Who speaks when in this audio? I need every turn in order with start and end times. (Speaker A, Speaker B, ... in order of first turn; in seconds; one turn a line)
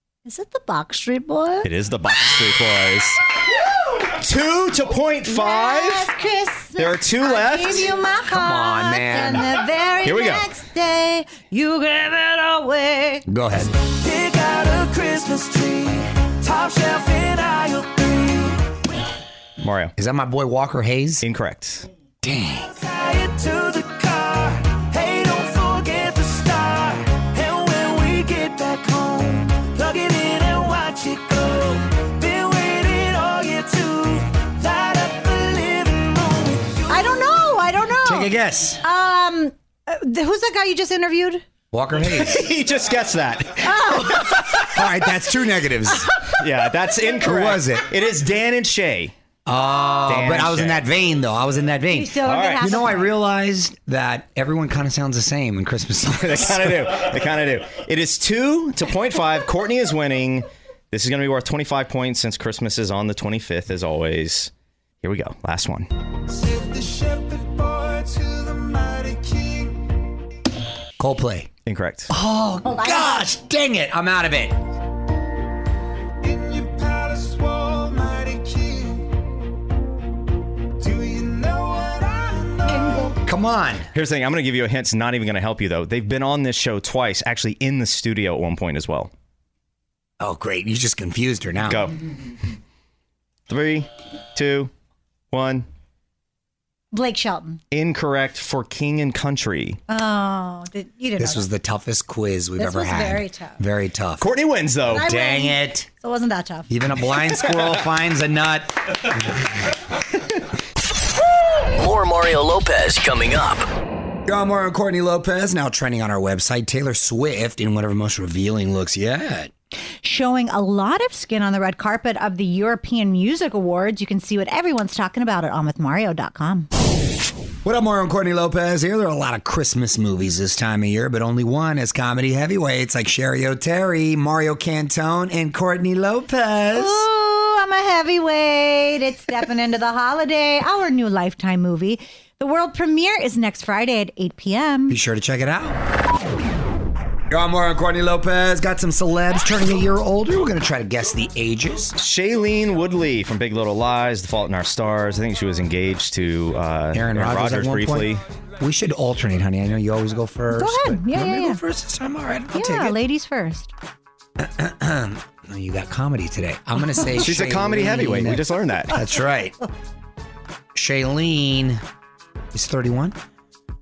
Speaker A: 0.2-1.7
Speaker B: 1.6-3.2
Speaker B: 4.1-6.1
Speaker A: 5.2-13.2
Speaker B: 6.8-7.9
Speaker C: 8.3-9.5
Speaker B: 10.0-10.5
Speaker C: 13.3-13.7
Speaker D: 13.8-18.8
Speaker B: 19.6-19.9
Speaker C: 19.9-21.2
Speaker B: 21.2-21.9
Speaker C: 22.2-22.7
Speaker D: 22.7-37.4
Speaker A: 36.9-41.4
Speaker C: 38.0-38.8
Speaker C: 41.7-42.5
Speaker B: 42.0-44.8
Speaker A: 43.6-44.2
Speaker C: 44.6-46.1
Speaker B: 46.1-49.1
Speaker C: 47.2-47.9
Speaker C: 49.5-57.1
Speaker B: 50.1-50.8
Speaker A: 51.9-53.1
Speaker B: 52.2-52.9
Speaker B: 56.2-64.5
Speaker B: 65.0-65.9
Speaker D: 66.3-69.8
Speaker C: 71.0-71.5
Speaker B: 71.7-72.1
Speaker C: 72.1-74.6
Speaker A: 72.6-73.3
Speaker D: 76.2-79.0
Speaker D: 80.8-82.8
Speaker A: 82.7-83.1
Speaker C: 83.2-83.9
Speaker B: 83.9-89.1
Speaker C: 90.2-91.9
Speaker B: 91.7-91.9
Speaker B: 93.5-94.7
Speaker B: 95.3-95.7
Speaker A: 96.9-97.6
Speaker B: 97.7-99.8
Speaker A: 99.9-101.5
Speaker C: 101.2-104.3
Speaker A: 102.6-103.6
Speaker B: 104.2-105.1
Speaker A: 104.9-106.7
Speaker C: 104.9-105.9
Speaker C: 106.7-109.2
Speaker E: 111.6-113.7
Speaker C: 114.3-119.5
Speaker A: 120.0-126.7
Speaker C: 127.6-137.1
Speaker A: 136.8-145.0
Speaker C: 144.9-145.8
Speaker C: 147.3-152.0
Speaker B: 152.0-158.2
Speaker C: 156.9-163.0
Speaker A: 160.5-161.6
Speaker A: 162.5-163.7
Speaker C: 164.4-169.6
Speaker B: 167.2-168.9
Speaker C: 170.8-171.8
Speaker C: 172.5-173.2